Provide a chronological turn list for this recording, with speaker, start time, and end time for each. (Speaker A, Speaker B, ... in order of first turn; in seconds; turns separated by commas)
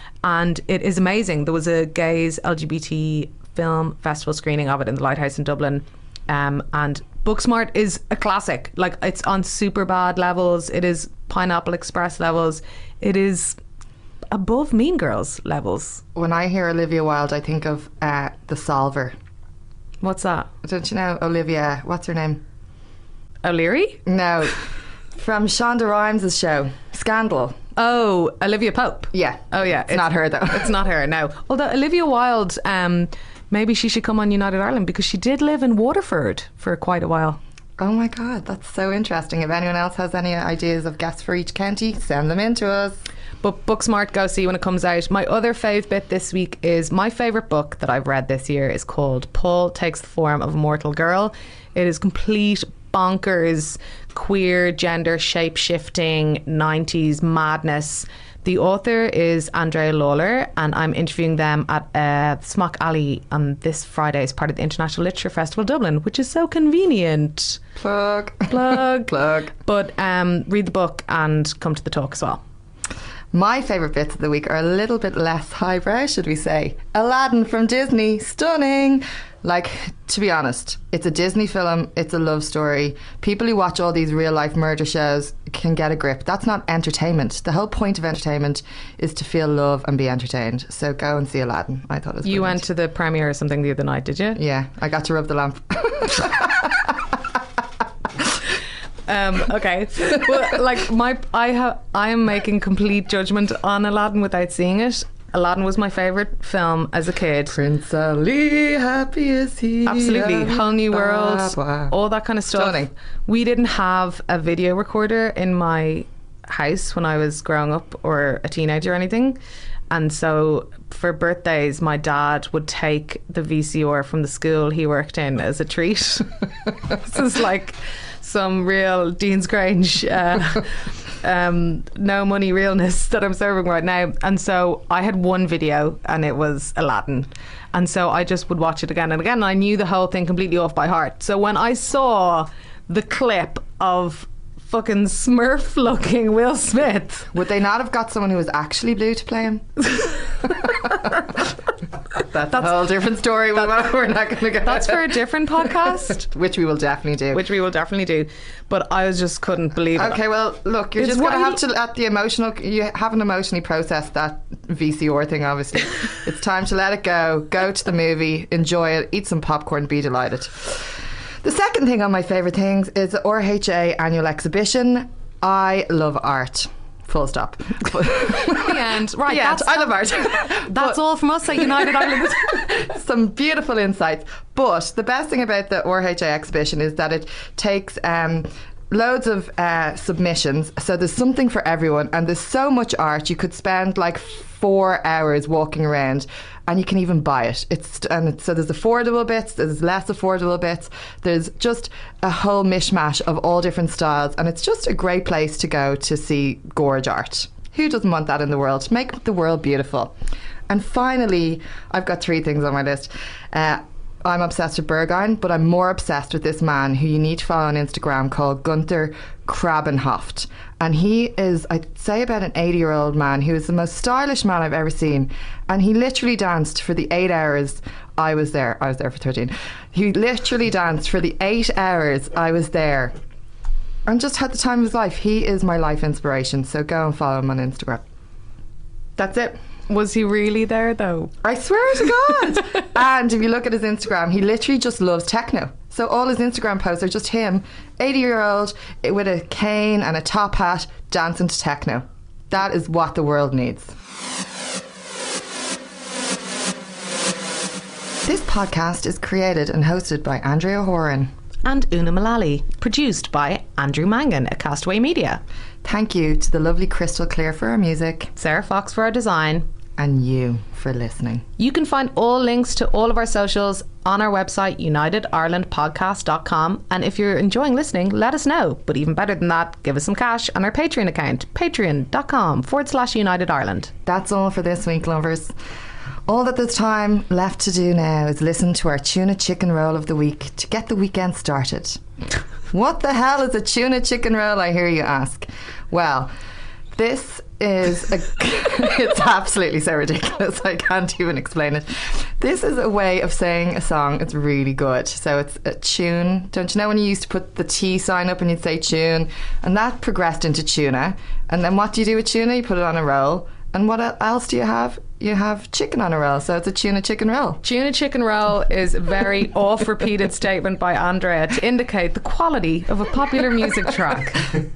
Speaker A: 0.2-13.6, Speaker A: 14.3-16.0, Speaker B: 16.1-19.1, Speaker A: 20.0-20.5, Speaker B: 20.6-22.4, Speaker A: 23.4-24.0, Speaker B: 24.1-24.6, Speaker B: 25.2-27.6, Speaker A: 27.8-37.4, Speaker B: 29.1-30.7, Speaker B: 37.8-43.0, Speaker A: 43.4-67.6, Speaker B: 67.8-69.5, Speaker A: 68.5-72.4, Speaker B: 73.3-92.6, Speaker A: 92.2-94.4, Speaker B: 94.4-97.2, Speaker A: 99.1-107.6, Speaker B: 107.5-112.0, Speaker A: 109.9-119.4, Speaker B: 112.5-112.9, Speaker A: 119.9-147.3, Speaker B: 147.3-149.8, Speaker B: 150.4-151.4, Speaker B: 152.2-155.1, Speaker A: 154.7-156.2, Speaker B: 156.0-157.4, Speaker A: 157.3-160.2, Speaker B: 160.0-181.0, Speaker A: 161.0-161.6, Speaker A: 178.4-182.7, Speaker B: 182.5-210.1, Speaker B: 210.7-233.1, Speaker B: 234.1-238.0, Speaker B: 239.2-239.6, Speaker A: 239.9-241.4, Speaker B: 241.4-253.9, Speaker B: 258.3-261.3, Speaker A: 261.6-265.4, Speaker B: 265.8-268.3, Speaker A: 268.4-269.6, Speaker B: 270.0-271.4, Speaker A: 271.6-283.9, Speaker B: 284.1-285.5, Speaker B: 286.3-292.0, Speaker B: 292.7-296.3, Speaker B: 296.9-317.6, Speaker A: 317.6-324.5